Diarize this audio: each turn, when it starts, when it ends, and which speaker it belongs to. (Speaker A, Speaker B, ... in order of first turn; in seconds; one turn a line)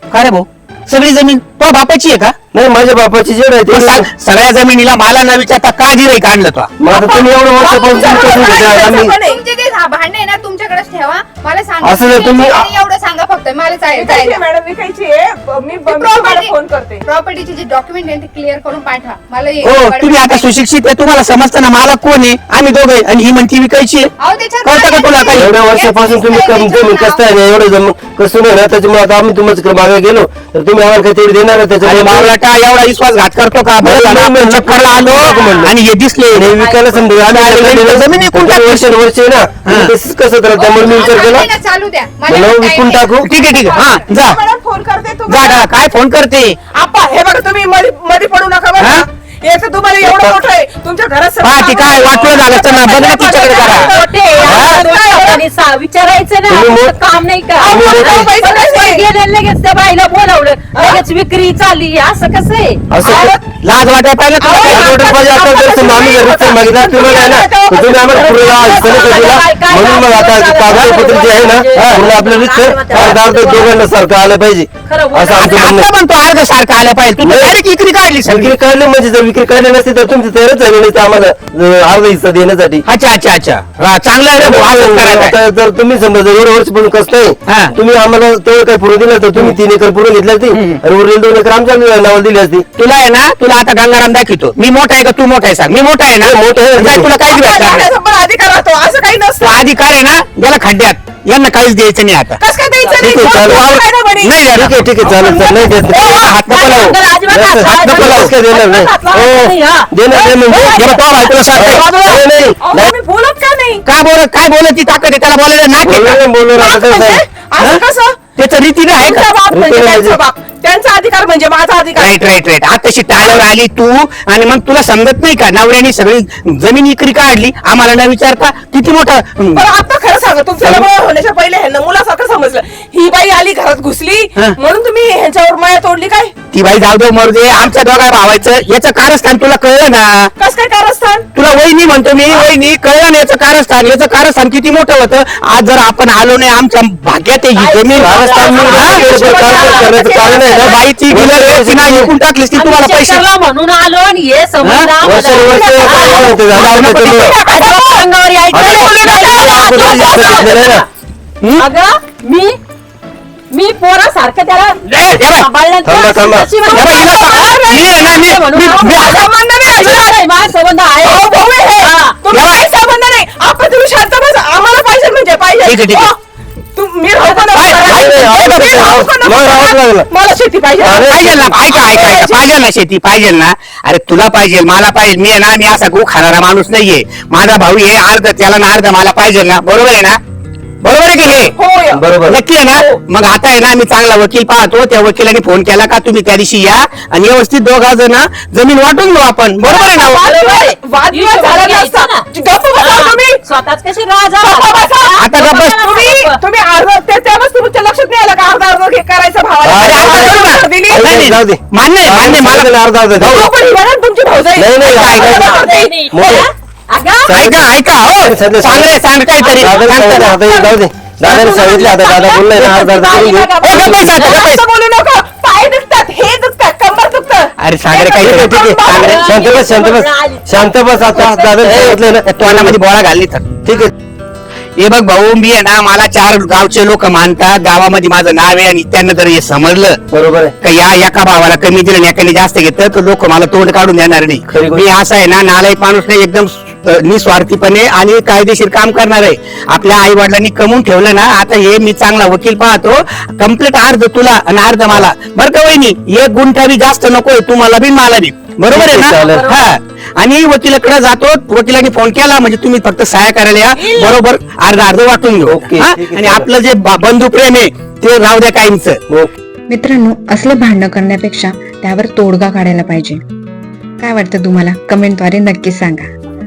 Speaker A: 0.1-2.4
Speaker B: 2.5-4.1
Speaker A: 3.7-6.7
Speaker B: 6.8-9.1
Speaker C: 7.6-9.4
Speaker D: 7.8-14.4
Speaker B: 11.8-12.7
Speaker C: 14.0-17.0
Speaker D: 15.8-20.5
Speaker A: 19.6-24.1
Speaker D: 24.2-27.2
Speaker A: 24.6-25.5
Speaker B: 25.3-32.3
Speaker A: 31.8-36.5
Speaker B: 33.8-35.7
Speaker E: 35.1-35.7
Speaker B: 36.3-41.5
Speaker E: 36.5-37.1
Speaker A: 37.3-38.9
Speaker A: 39.6-39.9
Speaker D: 40.6-43.9
Speaker B: 42.3-43.3
Speaker A: 43.2-44.4
Speaker C: 43.6-45.7
Speaker A: 45.3-46.6
Speaker C: 46.7-55.4
Speaker A: 48.8-49.0
Speaker A: 51.4-53.9
Speaker E: 53.1-63.3
Speaker A: 54.4-54.9
Speaker B: 56.5-57.0
Speaker B: 57.6-58.3
Speaker C: 57.6-59.0
Speaker B: 62.9-63.3
Speaker A: 63.6-65.0
Speaker C: 64.4-67.8
Speaker B: 64.7-75.9
Speaker E: 67.9-73.8
Speaker E: 74.9-75.8
Speaker A: 75.4-78.5
Speaker B: 77.2-77.6
Speaker B: 78.3-82.8
Speaker A: 82.9-85.4
Speaker B: 84.4-92.7
Speaker A: 87.5-87.7
Speaker A: 90.5-90.8
Speaker A: 92.8-97.9
Speaker B: 96.2-97.1
Speaker C: 97.3-99.6
Speaker A: 99.4-102.4
Speaker C: 102.4-104.3
Speaker E: 102.8-103.4
Speaker B: 103.0-103.8
Speaker A: 104.2-104.7
Speaker B: 104.5-106.1
Speaker C: 105.0-105.6
Speaker E: 105.8-111.7
Speaker A: 106.2-107.0
Speaker B: 107.3-112.9
Speaker A: 107.6-108.3
Speaker A: 110.7-111.8
Speaker C: 111.8-113.8
Speaker A: 113.9-116.2
Speaker B: 115.8-117.2
Speaker C: 116.6-118.3
Speaker A: 118.4-119.3
Speaker C: 119.0-122.4
Speaker B: 119.5-120.2
Speaker A: 122.0-129.7
Speaker C: 123.2-123.5
Speaker C: 129.6-136.3
Speaker A: 136.5-140.3
Speaker C: 140.4-141.3
Speaker A: 141.3-149.3
Speaker E: 147.6-150.8
Speaker B: 148.0-152.1
Speaker A: 150.6-153.2
Speaker E: 152.5-156.4
Speaker A: 154.6-154.9
Speaker B: 155.0-157.3
Speaker A: 156.4-157.8
Speaker E: 157.5-160.9
Speaker B: 158.5-160.8
Speaker A: 158.6-159.2
Speaker C: 158.8-159.4
Speaker E: 161.6-162.6
Speaker E: 163.5-172.2
Speaker A: 164.9-165.5
Speaker B: 165.8-166.5
Speaker A: 166.7-169.2
Speaker C: 166.9-168.1
Speaker C: 169.1-170.2
Speaker C: 171.0-176.1
Speaker A: 172.3-172.7
Speaker A: 175.6-176.1
Speaker C: 176.8-181.1
Speaker E: 177.2-178.3
Speaker A: 177.5-178.8
Speaker B: 177.8-180.1
Speaker B: 180.8-181.5
Speaker A: 181.1-190.2
Speaker C: 181.7-182.4
Speaker A: 190.8-191.5
Speaker C: 191.6-192.0
Speaker B: 191.9-192.4
Speaker A: 192.3-200.3
Speaker E: 199.7-202.2
Speaker C: 199.8-203.4
Speaker E: 202.8-206.4
Speaker C: 204.4-211.1
Speaker A: 205.2-205.9
Speaker B: 209.6-213.5
Speaker A: 209.8-213.4
Speaker C: 213.4-214.7
Speaker B: 214.6-216.5
Speaker E: 214.8-217.5
Speaker A: 214.8-215.9
Speaker B: 217.3-218.9
Speaker A: 217.3-220.3
Speaker E: 219.4-224.5
Speaker B: 219.6-224.1
Speaker A: 223.6-224.6
Speaker C: 224.3-229.0
Speaker A: 227.6-229.3
Speaker B: 228.2-232.8
Speaker E: 228.8-231.8
Speaker A: 231.6-233.5
Speaker B: 233.6-233.9
Speaker A: 234.8-240.0
Speaker B: 240.1-240.6
Speaker A: 240.6-269.0
Speaker B: 244.5-244.9
Speaker B: 258.7-259.5
Speaker E: 259.2-259.6
Speaker C: 263.8-264.2
Speaker B: 265.4-266.5
Speaker F: 269.7-273.2
Speaker F: 274.0-276.1